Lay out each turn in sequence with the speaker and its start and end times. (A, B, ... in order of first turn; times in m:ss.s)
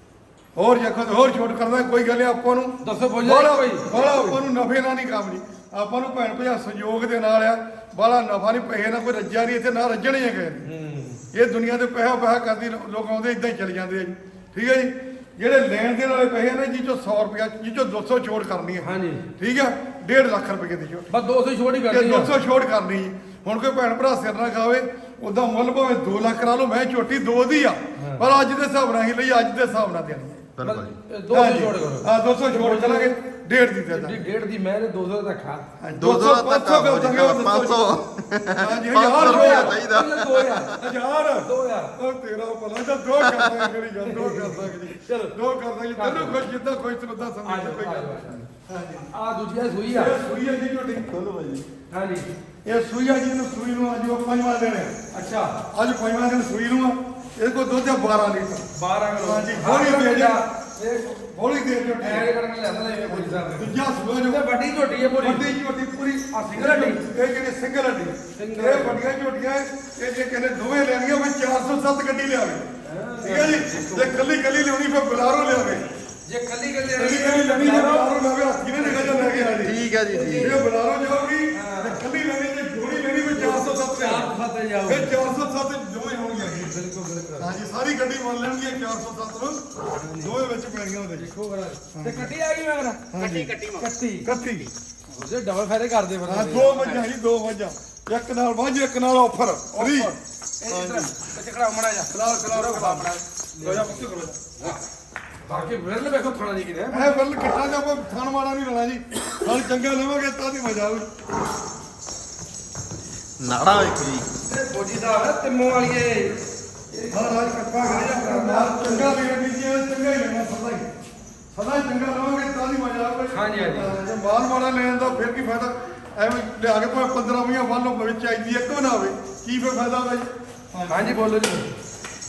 0:00.6-0:10.7 A
0:02.8-0:04.4 B
0:10.6-0:11.2 B
0:11.3-0:18.9 A
0:18.8-0:19.2 B
0:19.4-0:21.1 A
0:21.1-0:22.3 B
0:21.9-0:30.5 A
0:28.0-0:28.2 B
0:30.6-0:31.0 C
0:30.6-0:33.1 B
0:31.3-0:34.2 A
0:33.9-0:35.6 B
0:35.8-0:38.0 A
0:36.0-0:40.8 C
0:38.6-0:39.8 A
0:39.2-0:40.8 B
0:40.7-0:49.1 A
0:41.4-0:42.0 B
0:43.2-0:43.7 C
0:44.0-0:45.4 B
0:46.0-0:46.4 B
0:47.4-0:48.4 B
0:49.1-0:50.1 B
0:49.9-0:51.1 A
0:51.1-0:51.6 C
0:51.9-0:52.3 B
0:52.7-0:54.9 A
0:55.1-0:55.6 B
0:55.7-0:58.7 A
0:58.8-1:01.2 B
0:59.2-1:00.4 A
1:01.1-1:02.3 A
1:02.0-1:05.5 B
1:02.8-1:04.4 A
1:05.2-1:12.7 A
1:06.3-1:07.0 B
1:08.4-1:09.0 B
1:12.8-1:14.1 B
1:13.2-1:15.9 A
1:16.3-1:18.2 B
1:17.0-1:19.8 A
1:18.8-1:20.6 B
1:19.6-1:20.6 C
1:20.4-1:24.3 A
1:21.5-1:22.0 B
1:23.3-1:25.2 B
1:24.8-1:26.8 A
1:26.5-1:27.5 B
1:27.4-1:29.6 A
1:29.9-1:30.4 B
1:30.2-1:31.3 A
1:31.2-1:33.2 B
1:31.9-1:32.4 A
1:33.1-1:33.6 A
1:33.7-1:34.3 B
1:34.2-1:34.7 A
1:35.1-1:37.1 B
1:36.3-1:40.2 A
1:39.7-1:44.0 B
1:40.7-1:41.1 A
1:42.1-1:44.4 A
1:45.4-1:47.2 B
1:45.5-1:45.7 A
1:46.9-1:51.1 A
1:53.4-1:54.3 C
1:54.5-1:56.4 B
1:56.9-1:59.2 B
1:57.1-2:00.9 A
2:01.5-2:11.2 A
2:03.3-2:04.0 B
2:10.9-2:11.7 B